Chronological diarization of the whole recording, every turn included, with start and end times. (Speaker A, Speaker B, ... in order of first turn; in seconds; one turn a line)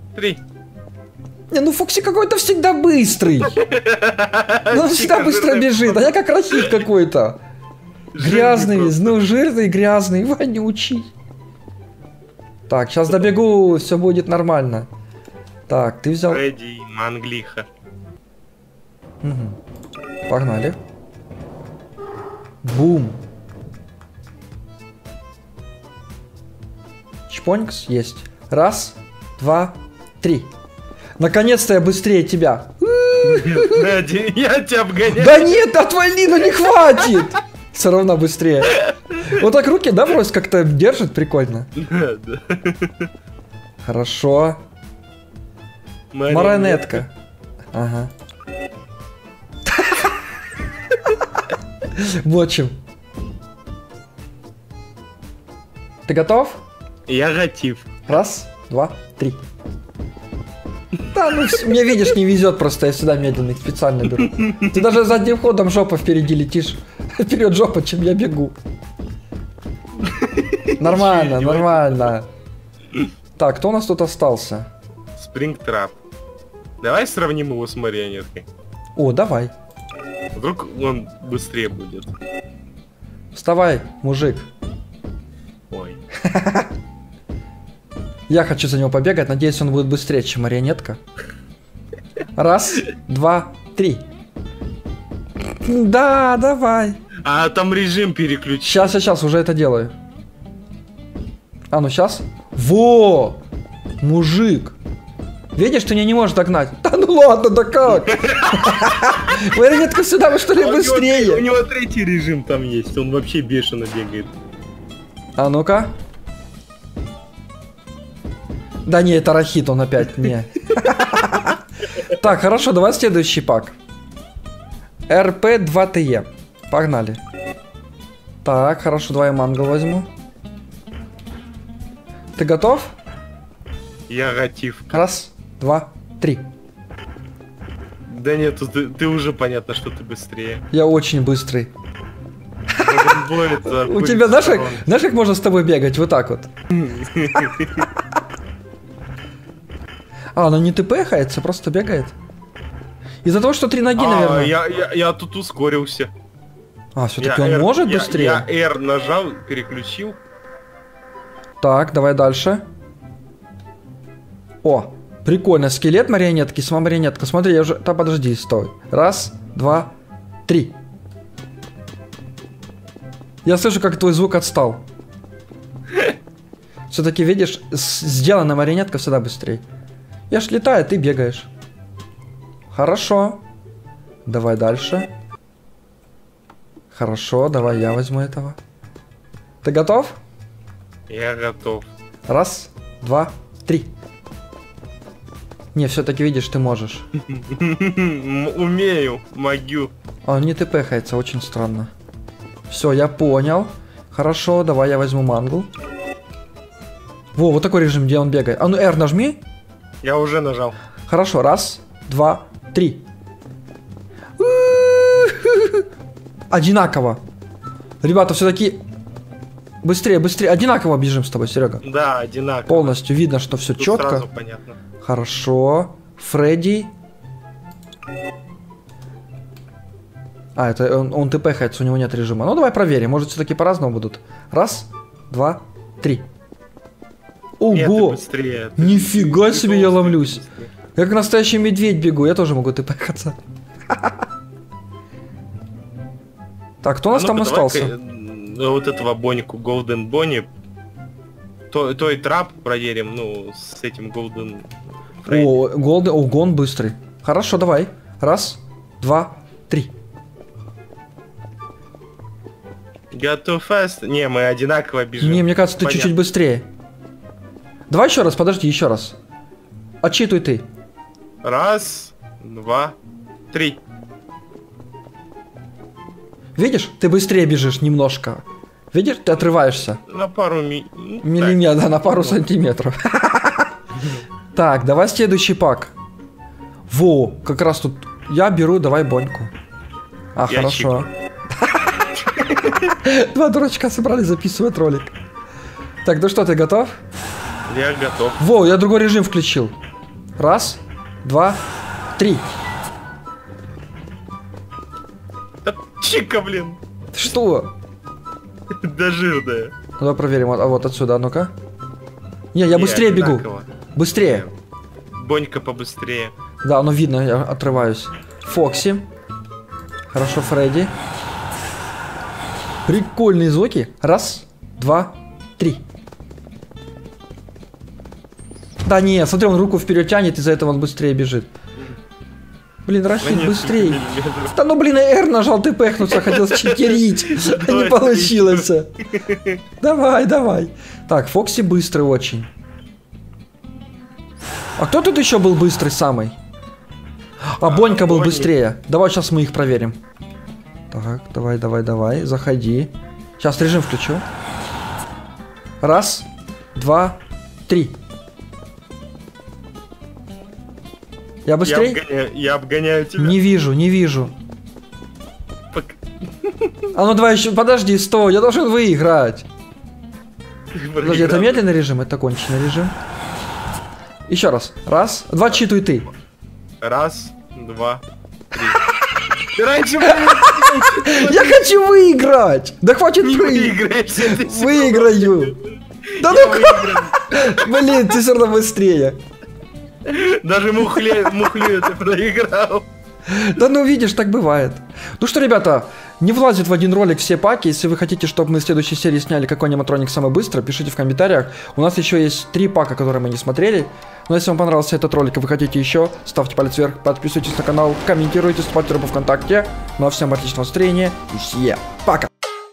Speaker A: 0.1-0.4
Speaker B: 1.5-3.6
Speaker A: 3.6-6.8
Speaker B: 4.7-7.4
Speaker A: 8.1-9.2
Speaker B: 8.2-11.1
Speaker B: 12.7-14.9
Speaker B: 15.7-16.4
Speaker A: 16.3-17.6
Speaker B: 19.2-19.6
Speaker B: 20.3-20.8
Speaker B: 22.6-23.2
Speaker B: 27.3-30.5
Speaker B: 31.2-34.0
Speaker A: 33.2-35.6
Speaker B: 35.1-41.7
Speaker A: 41.8-43.0
Speaker B: 43.8-44.6
Speaker A: 46.1-47.0
Speaker B: 46.3-47.1
Speaker B: 47.7-48.1
Speaker B: 49.7-50.1
Speaker B: 51.9-52.8
Speaker B: 56.1-56.6
Speaker A: 57.1-58.2
Speaker B: 58.1-59.4
Speaker B: 61.1-68.5
Speaker A: 70.0-72.1
Speaker B: 70.8-72.3
Speaker B: 73.4-74.7
Speaker A: 75.2-75.9
Speaker A: 76.8-78.5
Speaker B: 79.0-79.5
Speaker A: 80.3-82.1
Speaker B: 83.3-84.5
Speaker A: 85.7-86.0
Speaker B: 86.2-86.7
Speaker B: 88.3-91.0
Speaker B: 92.3-94.0
Speaker B: 95.6-97.0
Speaker A: 97.2-98.9
Speaker B: 98.6-99.9
Speaker B: 101.7-103.4
Speaker B: 104.0-104.8
Speaker B: 105.5-111.5
Speaker A: 108.0-108.6
Speaker A: 110.5-114.3
Speaker B: 115.4-115.9
Speaker B: 118.8-121.5
Speaker B: 122.1-123.7
Speaker B: 125.1-127.2
Speaker B: 128.4-130.1
Speaker B: 132.3-132.9
Speaker A: 134.1-135.1
Speaker B: 134.9-136.4
Speaker A: 138.1-140.6
Speaker B: 140.7-141.7
Speaker B: 142.7-146.5
Speaker A: 142.8-144.8
Speaker A: 146.7-147.8
Speaker B: 150.3-152.1
Speaker B: 153.2-154.6
Speaker A: 153.9-156.1
Speaker B: 156.9-158.5
Speaker A: 157.2-160.2
Speaker B: 161.6-162.6
Speaker B: 164.6-169.9
Speaker B: 170.5-170.8
Speaker B: 173.4-174.8
Speaker B: 176.9-179.6
Speaker B: 180.3-181.5
Speaker B: 182.7-183.4
Speaker B: 184.2-185.1
Speaker B: 186.9-188.6
Speaker B: 189.6-190.2
Speaker A: 191.1-191.9
Speaker B: 192.3-193.9
Speaker B: 195.7-197.1
Speaker A: 197.3-199.9
Speaker B: 200.2-201.9
Speaker B: 202.7-205.7
Speaker B: 207.3-209.4
Speaker A: 210.0-210.8
Speaker B: 211.1-213.0
Speaker B: 214.4-215.8
Speaker B: 216.5-217.2
Speaker B: 218.0-218.8
Speaker B: 219.8-221.8
Speaker A: 221.8-223.0
Speaker B: 222.7-224.2
Speaker A: 223.8-224.8
Speaker B: 225.0-226.9
Speaker B: 230.6-236.2
Speaker B: 237.6-238.2
Speaker A: 237.7-240.7
Speaker B: 238.8-240.4
Speaker B: 240.9-243.3
Speaker B: 246.8-247.9
Speaker A: 247.1-250.5
Speaker A: 251.7-254.7
Speaker A: 255.2-255.6
Speaker B: 255.2-259.9
Speaker A: 263.1-266.1
Speaker B: 265.2-266.7
Speaker B: 267.9-269.2
Speaker B: 270.0-270.6
Speaker A: 271.4-272.9
Speaker A: 273.5-273.8
Speaker B: 276.6-280.0
Speaker A: 280.1-281.7
Speaker B: 281.2-283.7
Speaker B: 284.5-285.9
Speaker B: 286.9-289.5
Speaker B: 290.3-291.9
Speaker A: 290.5-291.1
Speaker A: 292.4-292.9
Speaker B: 293.0-295.1
Speaker B: 296.0-296.9
Speaker A: 297.7-298.4
Speaker B: 298.4-299.7
Speaker B: 300.4-301.6
Speaker B: 302.1-302.4
Speaker A: 305.6-306.8
Speaker B: 307.1-307.7
Speaker A: 308.7-309.7
Speaker B: 310.0-311.5
Speaker B: 312.5-313.4
Speaker A: 312.7-314.5
Speaker B: 313.9-314.4
Speaker A: 315.1-316.3
Speaker B: 316.6-319.1
Speaker B: 320.1-320.9
Speaker B: 322.9-325.8
Speaker B: 328.8-331.5
Speaker B: 332.9-338.9
Speaker A: 333.2-334.5
Speaker A: 336.1-339.6
Speaker B: 339.8-342.5
Speaker B: 344.8-346.4
Speaker B: 347.5-350.0
Speaker A: 347.6-348.5
Speaker B: 350.9-354.2
Speaker B: 355.8-358.0
Speaker B: 361.4-362.0
Speaker A: 361.6-363.4
Speaker B: 363.2-364.3
Speaker A: 365.7-366.7
Speaker B: 366.9-369.5
Speaker A: 370.7-371.6
Speaker B: 371.0-372.9
Speaker B: 374.3-376.1
Speaker A: 376.8-378.0
Speaker A: 379.5-381.8
Speaker B: 380.1-385.5
Speaker A: 383.2-385.6
Speaker A: 386.1-388.0
Speaker B: 386.2-389.2
Speaker A: 390.1-392.9
Speaker B: 393.3-412.3